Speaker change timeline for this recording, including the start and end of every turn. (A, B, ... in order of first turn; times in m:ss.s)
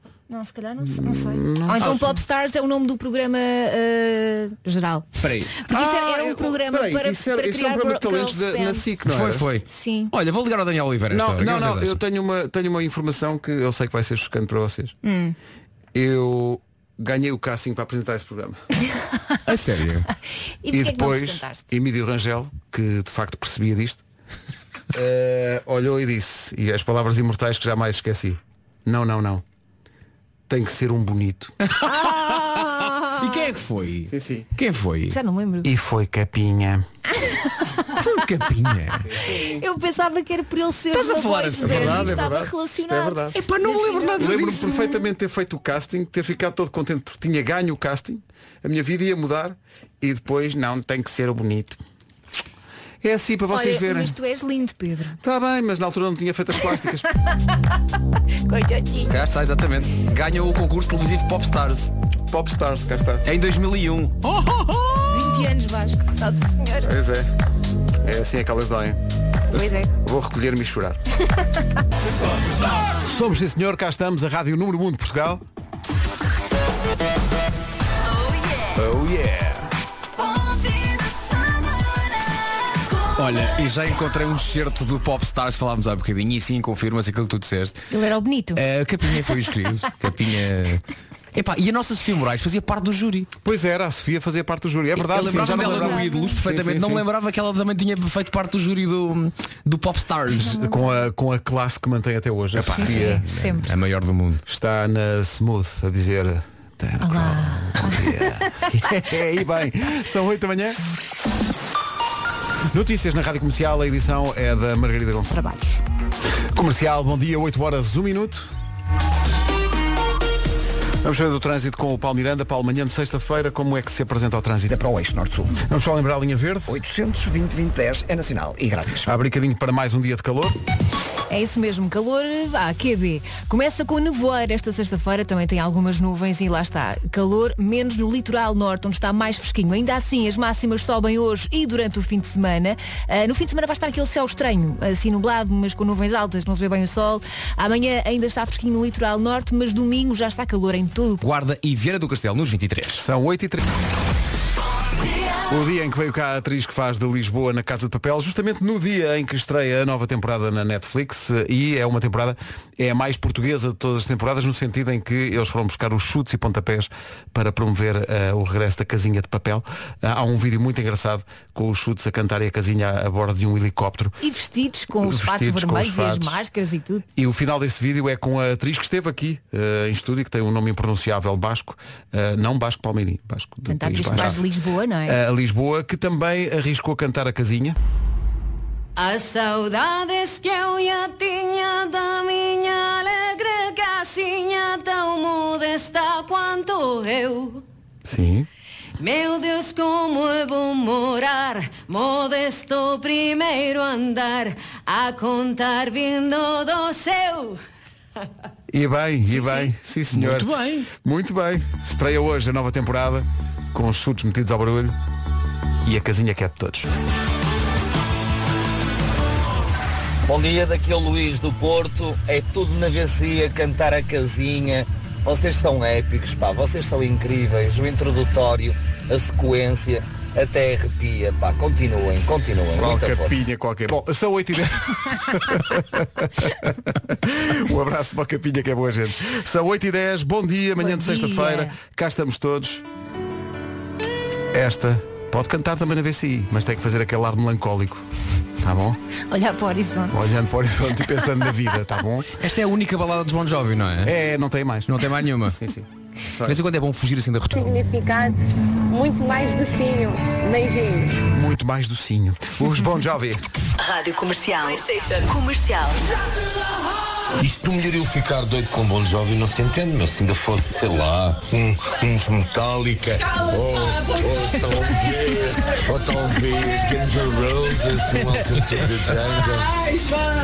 0:00.3-0:08.9 A
0:00.9-0:02.1 B
0:01.8-0:02.0 C
0:05.2-0:05.6 C
0:05.7-0:09.5 B
0:09.1-0:12.0 C
0:09.7-0:10.1 A
0:11.1-0:15.0 B
0:15.0-0:15.4 A
0:15.9-0:18.6 B
0:19.5-0:20.1 C
0:20.6-0:21.7 A
0:20.7-0:24.0 B
0:24.9-0:29.4 B
0:30.5-0:31.6 B
0:31.7-0:35.2 C
0:31.9-0:33.4 A
0:34.1-0:34.5 B
0:35.1-0:35.7 A
0:35.6-0:36.9 B
0:37.2-0:37.5 A
0:37.9-0:39.1 C
0:39.0-0:39.6 B
0:39.3-0:45.0 A
0:40.9-0:42.2 C
0:41.6-0:43.4 B
0:43.3-0:44.9 C
0:44.2-0:51.8 B
0:53.0-0:54.2 B
0:53.5-0:55.2 A
0:55.2-0:57.1 B
0:58.5-0:59.2 A
0:59.1-1:01.9 C
1:02.3-1:03.2 B
1:03.2-1:05.2 C
1:05.1-1:06.9 A
1:06.8-1:07.3 B
1:08.0-1:09.0 B
1:09.5-1:09.9 A
1:09.9-1:11.0 B
1:12.9-1:15.4 B
1:18.8-1:19.7 C
1:23.2-1:27.8 C
1:27.9-1:28.6 A
1:28.6-1:30.8 C
1:31.3-1:33.3 C
1:33.4-1:37.0 B
1:35.0-1:40.6 C
1:35.3-1:36.3 A
1:40.4-1:43.2 B
1:40.4-1:41.0 A
1:42.6-1:44.4 C
1:42.7-1:43.7 A
1:44.5-1:50.8 B
1:47.0-1:48.7 A
1:52.7-1:55.4 B
1:55.3-1:55.8 A
1:56.5-1:58.5 B
2:01.0-2:04.7 B
2:04.7-2:05.6 D
2:05.6-2:06.7 B
2:06.7-2:09.1 D
2:09.0-2:10.6 B
2:11.3-2:31.2 A
2:31.2-2:33.0 C
2:33.0-2:33.7 B
2:35.5-2:54.2 B
2:54.2-2:57.0 A
2:55.0-2:56.4 B
2:57.2-3:04.5 B
3:03.7-3:05.2 A
3:05.1-3:07.8 B
3:09.0-3:17.6 E
3:18.1-3:18.5 B
3:19.0-3:27.6 E
3:28.7-3:35.0 B
3:30.1-3:30.9 C
3:35.8-3:36.9 B
3:40.3-3:53.4 F
3:52.8-4:02.8 B
4:00.8-4:01.7 A
4:04.5-4:08.1 B
4:08.6-4:09.0 B
4:09.3-4:10.3 A
4:10.1-4:12.4 B
4:12.4-4:14.1 C
4:14.0-4:14.9 B
4:14.9-4:15.6 C
4:15.5-4:16.6 B
4:16.4-4:17.8 C
4:17.5-4:21.2 G
4:21.3-4:23.4 B
4:23.8-4:26.0 H
4:27.4-4:39.7 I